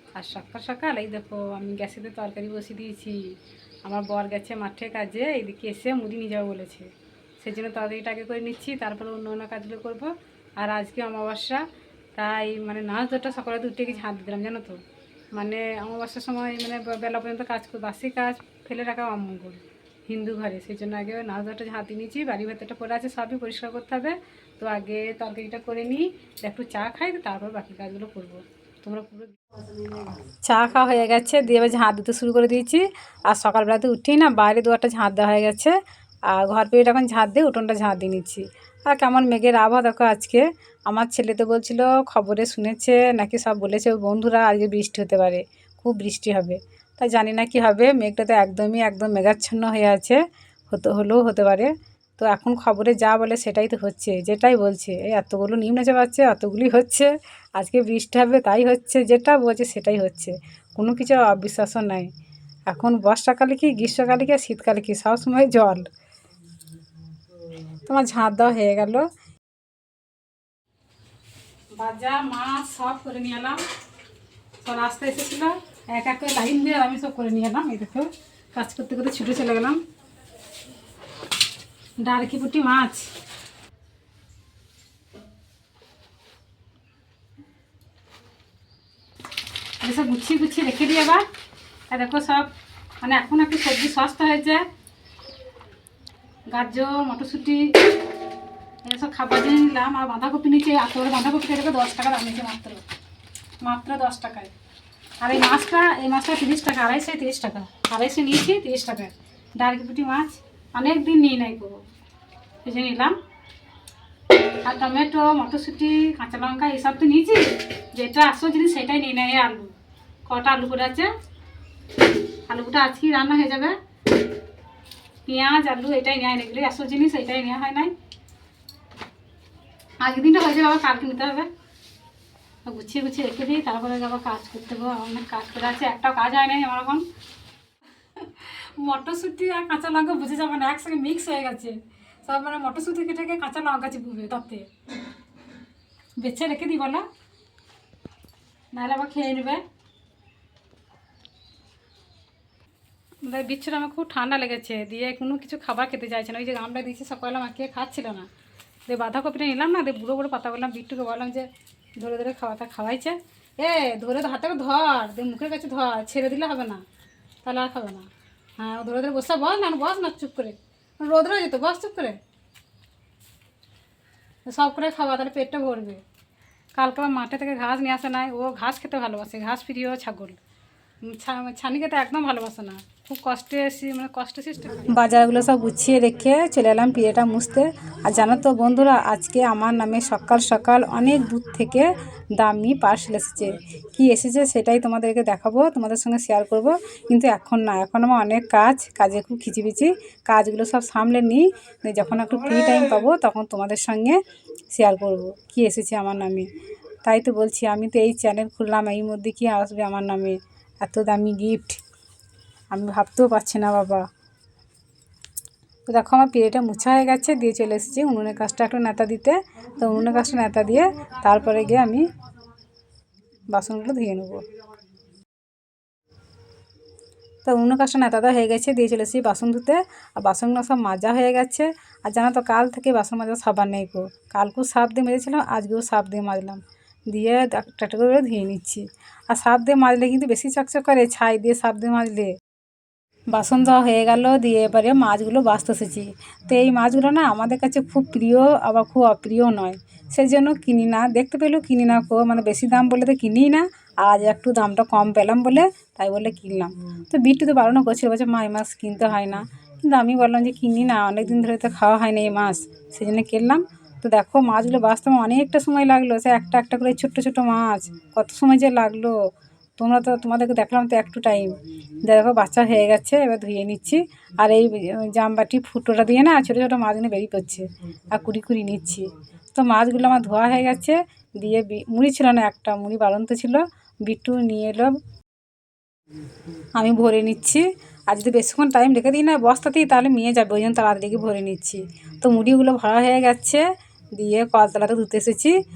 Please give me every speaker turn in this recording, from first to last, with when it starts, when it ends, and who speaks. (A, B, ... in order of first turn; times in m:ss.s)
0:00.2-0:03.2 A
0:03.8-0:11.6 A
0:12.2-0:14.8 A
0:15.3-0:29.4 A
0:30.0-0:35.8 A
0:36.3-1:02.1 A
1:02.7-1:05.9 A
1:07.9-1:09.1 A
1:11.8-1:13.6 A
1:14.6-1:19.8 A
1:22.0-1:23.1 A
1:29.8-1:31.2 A
1:31.9-1:32.5 A
1:33.0-1:34.7 A
1:36.5-1:37.7 A
1:38.8-1:42.8 A
1:43.6-1:44.5 A
1:45.2-1:51.8 A
1:52.6-1:53.2 A
1:54.6-1:59.7 A
2:00.3-2:01.1 A
2:02.5-2:03.8 A
2:05.3-2:07.9 A
2:10.0-2:11.5 A
2:12.7-2:17.1 A
2:18.2-2:24.7 A
2:26.2-2:27.1 A
2:28.7-2:29.6 A
2:33.2-2:38.3 A
2:38.9-2:46.8 A
2:47.4-2:52.2 A
2:54.5-2:56.0 A
2:56.8-3:00.4 A
3:01.0-3:24.2 A
3:24.7-3:26.5 A
3:27.0-3:31.8 A
3:32.7-3:34.1 A
3:35.9-3:42.1 A
3:43.5-3:44.5 A
3:47.4-4:02.4 A
4:03.3-4:29.2 A
4:29.8-4:45.0 A
4:46.8-4:55.6 A